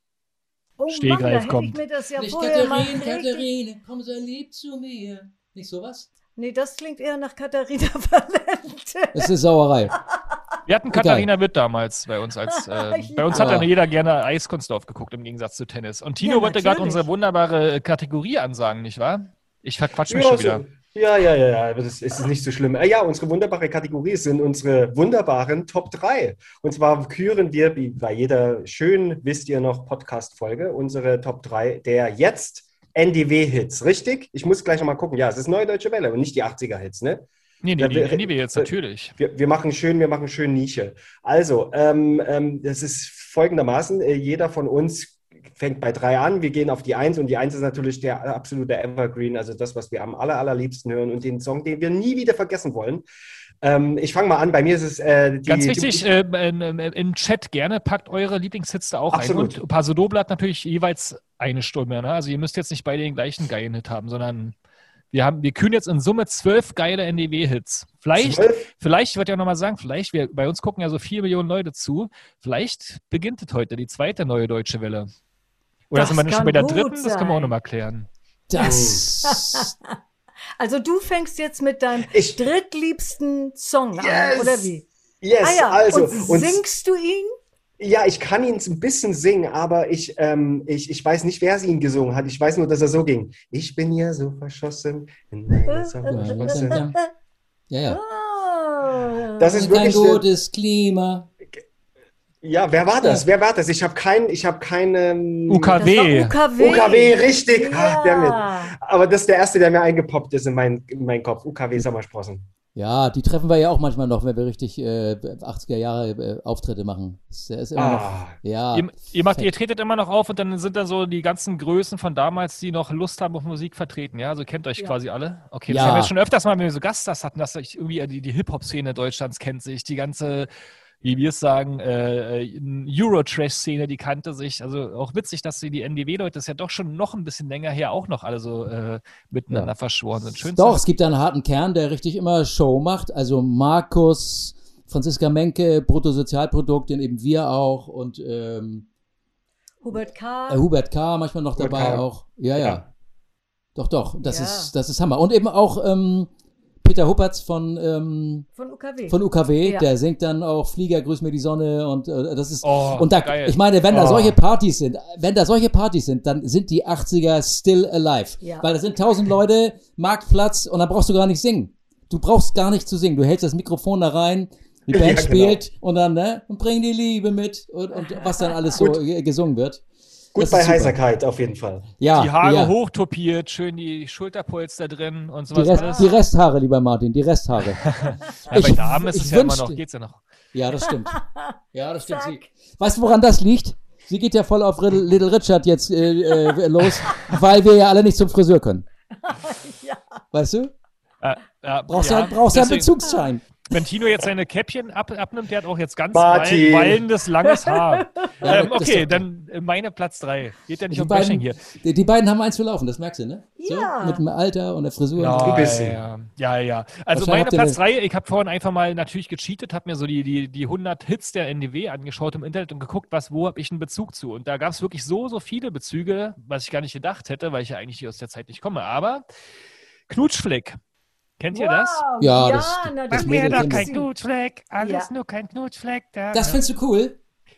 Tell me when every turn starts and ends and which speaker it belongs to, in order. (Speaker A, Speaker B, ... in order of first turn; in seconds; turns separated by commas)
Speaker A: 0.8-3.5, Speaker B: 0.9-1.8, Speaker C: 2.2-6.1, Speaker A: 6.3-9.3, Speaker C: 9.1-9.9, Speaker A: 10.0-10.4, Speaker B: 10.7-20.6, Speaker C: 10.9-11.3, Speaker A: 12.7-13.6, Speaker C: 13.3-13.7, Speaker A: 16.2-17.0, Speaker D: 20.1-37.3, Speaker B: 37.6-39.1, Speaker D: 37.8-53.0, Speaker D: 53.6-56.1, Speaker B: 55.5-64.5, Speaker D: 59.1-59.6, Speaker B: 65.1-75.1, Speaker D: 68.1-68.7, Speaker B: 75.9-78.1, Speaker A: 75.9-77.5, Speaker C: 78.5-79.7, Speaker D: 78.6-79.0, Speaker A: 79.3-79.9, Speaker A: 80.6-84.8, Speaker D: 82.1-82.4, Speaker D: 83.9-86.6, Speaker A: 85.4-87.3, Speaker D: 87.8-96.8, Speaker A: 95.7-96.9, Speaker C: 96.0-97.0, Speaker C: 97.7-98.0, Speaker A: 97.9-99.5, Speaker D: 99.3-100.2, Speaker C: 99.5-101.3, Speaker D: 102.4-105.8, Speaker C: 103.0-103.2, Speaker B: 105.5-106.4, Speaker A: 105.8-108.7, Speaker D: 106.6-112.4, Speaker C: 112.7-119.5, Speaker D: 117.8-118.3, Speaker B: 118.7-130.5, Speaker C: 125.7-126.1, Speaker B: 131.0-140.8, Speaker C: 140.4-148.8, Speaker A: 149.8-150.6, Speaker C: 150.5-152.9, Speaker D: 151.6-152.1, Speaker B: 152.6-152.8, Speaker C: 153.8-156.3, Speaker A: 154.2-154.7, Speaker C: 156.8-158.5, Speaker A: 158.6-159.9, Speaker C: 159.1-179.8, Speaker B: 162.6-164.4, Speaker A: 168.4-168.7, Speaker D: 174.9-175.6, Speaker A: 178.0-178.5, Speaker D: 178.8-179.0, Speaker D: 180.3-181.9, Speaker C: 180.3-180.9, Speaker C: 182.0-182.7, Speaker B: 182.1-186.1, Speaker C: 185.5-187.9, Speaker A: 185.7-186.2, Speaker B: 187.9-190.2, Speaker C: 188.5-189.8, Speaker C: 190.5-191.2, Speaker A: 191.2-192.4, Speaker C: 191.7-198.8, Speaker A: 197.1-197.3, Speaker A: 199.2-200.0, Speaker C: 200.3-200.7, Speaker B: 201.2-203.1, Speaker C: 201.9-203.4, Speaker B: 203.6-211.6, Speaker D: 206.1-207.1, Speaker A: 207.4-208.3, Speaker C: 208.4-209.2, Speaker C: 210.9-215.6, Speaker A: 213.6-214.2, Speaker B: 215.1-229.2, Speaker D: 215.4-216.0, Speaker C: 217.1-217.8, Speaker B: 230.1-230.8, Speaker B: 231.4-232.0, Speaker A: 231.5-234.1, Speaker C: 232.2-233.9, Speaker B: 233.1-236.6, Speaker A: 234.8-235.1, Speaker C: 236.3-237.2